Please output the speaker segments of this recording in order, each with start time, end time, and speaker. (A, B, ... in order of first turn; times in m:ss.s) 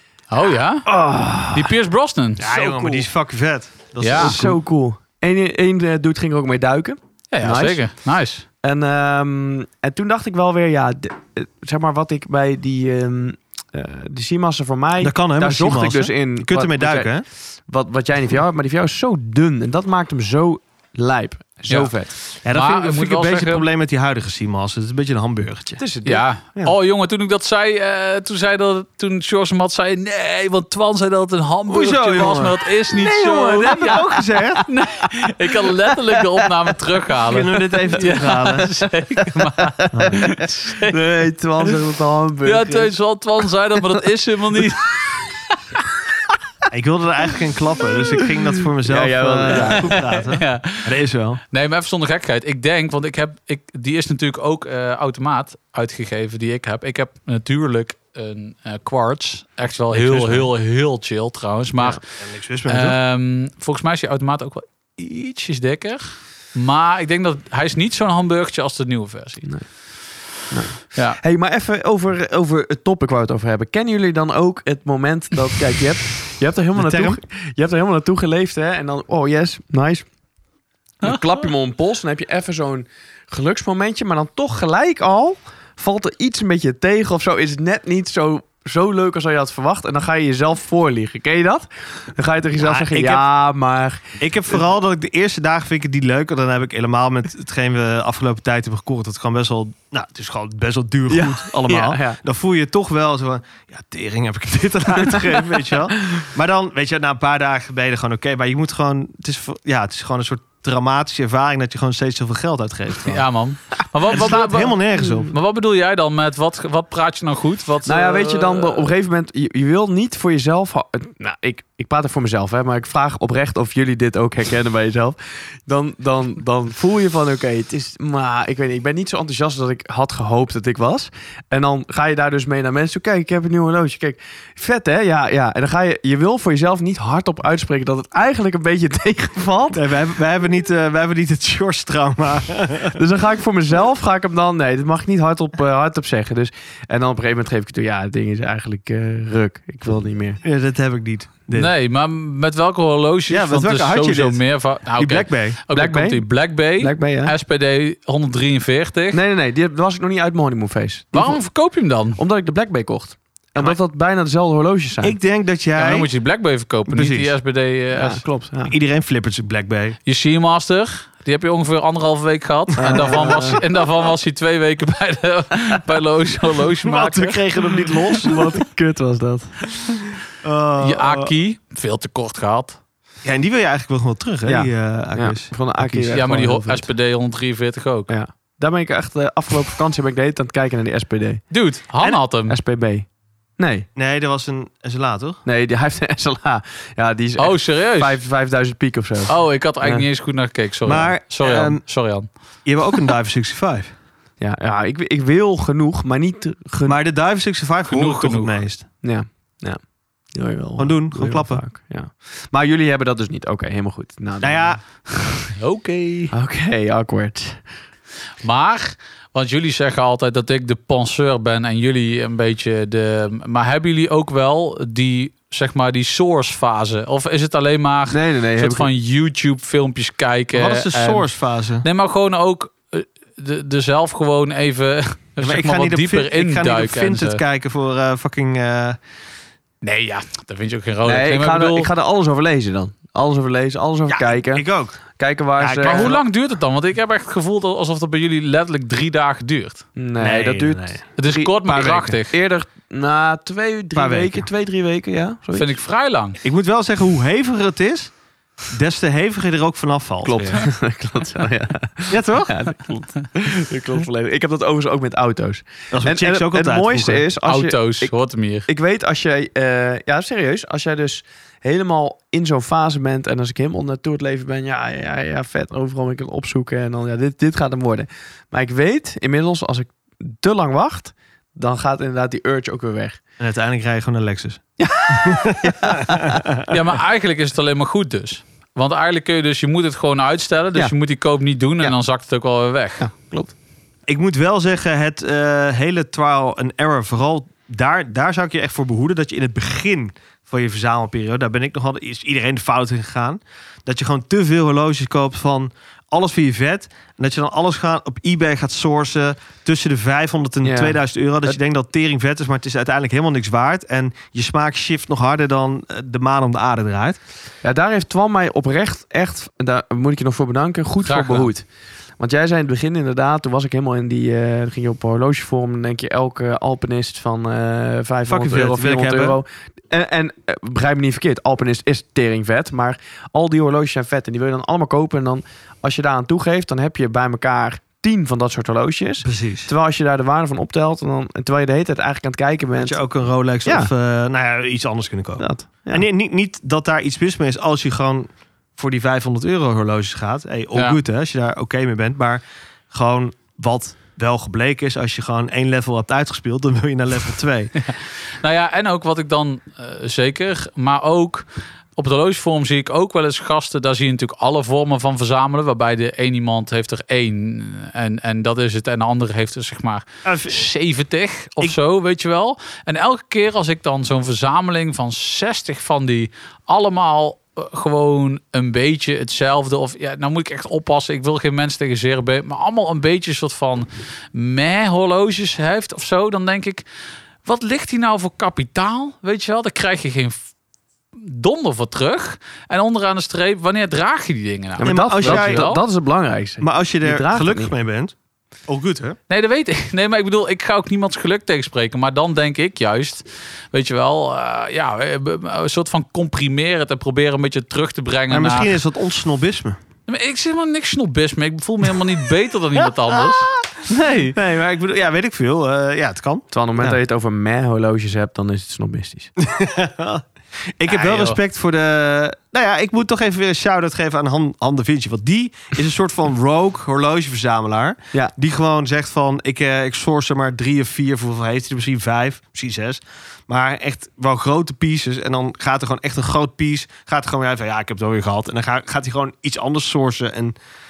0:00.3-0:00.9 A
0:00.9-0:01.7 B
0:01.5-0:02.4 A
0:02.4-0:04.6 C
0:02.4-0:03.1 B
0:04.0-0:04.4 A
0:04.1-0:07.9 B
0:07.3-0:08.5 A
0:08.6-0:22.1 B
0:15.0-0:17.2 C
0:21.7-0:23.7 A
0:22.4-0:25.8 C
0:25.8-0:26.7 B
0:26.0-0:34.0 A
0:31.7-0:34.7 C
0:33.8-0:34.1 B
0:34.7-0:41.0 A
0:37.3-0:38.8 C
0:39.6-0:43.0 B
0:39.9-0:40.2 C
0:42.4-0:45.4 A
0:46.7-0:51.4 C
0:48.8-0:50.0 B
0:49.9-0:50.9 A
0:51.5-1:02.0 A
1:00.0-1:00.4 C
1:02.2-1:03.0 C
1:02.7-1:09.5 A
1:09.4-1:09.7 B
1:10.4-1:20.1 B
1:10.9-1:11.2 A
1:16.8-1:17.2 C
1:21.0-1:34.1 B
1:21.0-1:21.4 A
1:32.6-1:33.3 C
1:34.2-1:53.3 C
1:41.1-1:42.2 B
1:45.1-1:45.6 B
1:53.1-1:58.9 A
1:54.1-1:55.3 C
1:57.9-2:19.8 B
2:19.7-2:23.0 C
2:23.0-2:30.4 B
2:30.4-2:31.7 C
2:31.5-2:39.2 A
2:33.3-2:35.6 C
2:35.7-2:37.4 B
2:39.1-2:41.4 B
2:41.1-2:42.2 A
2:42.2-2:45.2 B
2:45.0-2:46.1 C
2:45.8-2:48.2 A
2:46.9-2:47.3 C
2:47.9-2:48.7 B
2:48.7-2:50.0 C
2:50.1-2:58.4 A
2:52.8-2:53.6 B
2:52.8-2:53.6 C
2:56.8-2:58.6 C
2:58.2-2:59.9 B
3:00.4-3:01.3 C
3:00.8-3:02.8 A
3:03.2-3:06.2 C
3:04.5-3:06.9 B
3:06.1-3:08.1 A
3:08.1-3:11.4 B
3:11.5-3:12.6 A
3:12.5-3:13.1 B
3:13.6-3:13.9 B
3:14.0-3:15.4 C
3:15.4-3:20.1 B
3:17.4-3:18.2 A
3:19.3-3:22.3 A
3:20.9-3:22.0 C
3:22.6-3:23.9 C
3:24.4-3:27.0 B
3:26.9-3:28.8 C
3:27.9-3:28.6 A
3:29.0-3:29.8 B
3:30.3-3:35.1 B
3:30.8-3:31.6 C
3:34.4-3:34.8 C
3:35.6-3:36.3 A
3:36.3-3:37.6 B
3:38.4-3:51.3 A
3:48.1-3:48.9 B
3:50.5-3:51.8 C
3:51.8-3:57.4 A
3:55.4-3:59.0 C
3:59.8-4:01.9 A
4:01.0-4:06.2 B
4:04.1-4:05.0 C
4:05.6-4:06.2 C
4:05.8-4:09.9 A
4:10.0-4:15.8 B
4:10.2-4:11.1 C
4:11.2-4:12.3 A
4:11.7-4:12.0 C
4:14.0-4:14.4 C
4:15.5-4:16.4 A
4:16.4-4:18.1 C
4:18.7-4:20.6 C
4:20.2-4:28.2 B
4:22.1-4:22.5 C
4:25.9-4:27.3 C
4:27.4-4:28.7 A
4:28.7-4:43.2 B
4:43.4-4:46.6 C
4:44.8-4:46.4 B
4:46.7-4:53.1 A
4:53.0-4:53.5 B
4:54.1-5:17.2 C
5:10.6-5:11.6 B
5:17.6-5:21.7 B
5:21.0-5:21.5 A
5:22.2-5:43.0 B
5:28.3-5:29.4 C
5:39.2-5:39.7 C
5:42.8-5:57.8 C
5:43.6-5:43.9 B
5:45.4-5:46.0 B
5:50.7-5:51.0 A
5:57.9-6:26.8 A
6:10.2-6:10.6 C
6:27.4-6:30.4 A
6:31.2-6:35.8 A
6:34.8-6:37.7 B
6:34.8-6:35.7 C
6:36.6-6:38.1 C
6:38.7-6:39.2 C
6:39.3-6:48.8 A
6:48.3-6:49.8 C
6:50.1-6:54.3 A
6:53.8-6:57.0 C
6:56.5-6:59.3 B
6:59.4-7:00.2 C
7:00.8-7:20.6 C
7:00.9-7:01.4 A